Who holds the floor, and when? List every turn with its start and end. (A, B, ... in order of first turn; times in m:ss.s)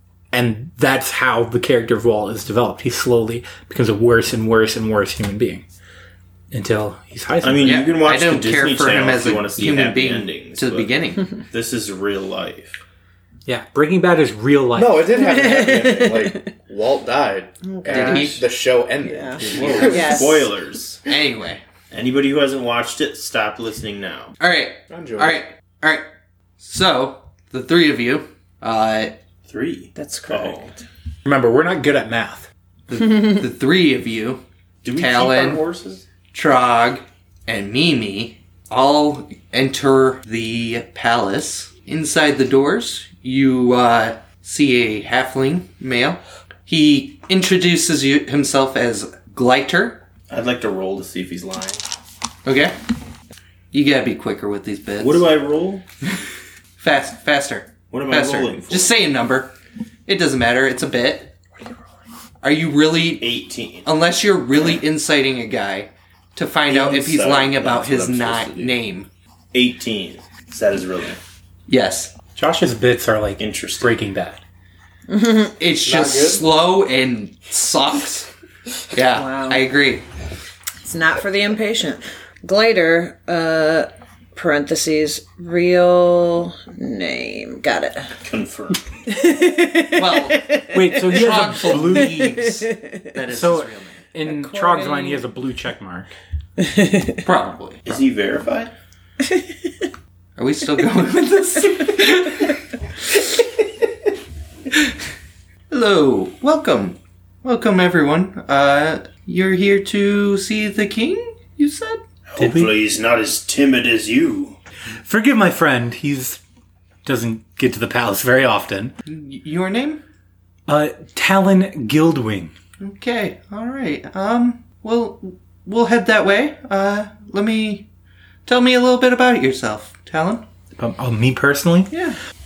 0:00.3-0:05.6 A
0:06.5-0:07.8 A
0:07.4-0:10.9 B
0:07.6-0:11.4 C
0:11.5-0:12.8 B
0:13.4-0:15.3 A
0:14.7-0:20.3 D
0:15.2-0:16.5 E
0:17.6-0:18.4 E
0:17.9-0:18.4 C
0:19.0-0:20.5 E
0:19.5-0:21.0 B
0:19.6-0:20.0 C
0:21.0-0:21.6 C
0:21.9-0:24.3 B
0:24.4-0:26.0 C
0:24.9-0:25.4 D
0:26.6-0:29.2 C
0:29.4-0:30.7 B
0:30.0-0:30.8 E
0:31.2-0:32.5 A
0:32.9-0:34.4 C
0:34.8-0:36.0 B
0:34.9-0:35.6 C
0:36.3-0:50.1 C
0:50.3-0:51.8 B
0:52.4-0:52.7 C
0:53.7-0:55.4 C
0:55.0-0:55.8 B
0:56.8-0:59.5 C
0:57.9-0:58.9 B
1:00.1-1:01.3 C
1:02.4-1:09.1 C
1:03.2-1:03.9 B
1:06.7-1:08.8 B
1:09.5-1:11.2 B
1:11.7-1:12.1 C
1:12.4-1:14.4 A
1:13.4-1:14.0 B
1:15.1-1:15.6 E
1:15.6-1:18.3 C
1:15.8-1:16.4 D
1:18.9-1:20.0 C
1:19.1-1:19.6 E
1:20.8-1:28.1 E
1:28.2-1:28.8 B
1:29.1-1:30.7 E
1:29.9-1:34.0 C
1:30.7-1:32.5 A
1:32.1-1:33.0 E
1:33.3-1:36.1 A
1:34.2-1:35.2 E
1:36.6-1:37.2 E
1:37.2-1:38.0 C
1:37.8-1:38.7 B
1:40.4-1:42.6 C
1:45.7-1:52.0 C
1:52.3-1:54.6 B
1:52.4-1:52.7 A
1:55.0-1:56.4 A
1:57.0-1:58.9 A
1:59.0-2:00.0 C
2:00.7-2:02.5 A
2:02.8-2:07.9 C
2:08.4-2:10.4 C
2:10.8-2:11.9 A
2:11.9-2:12.2 C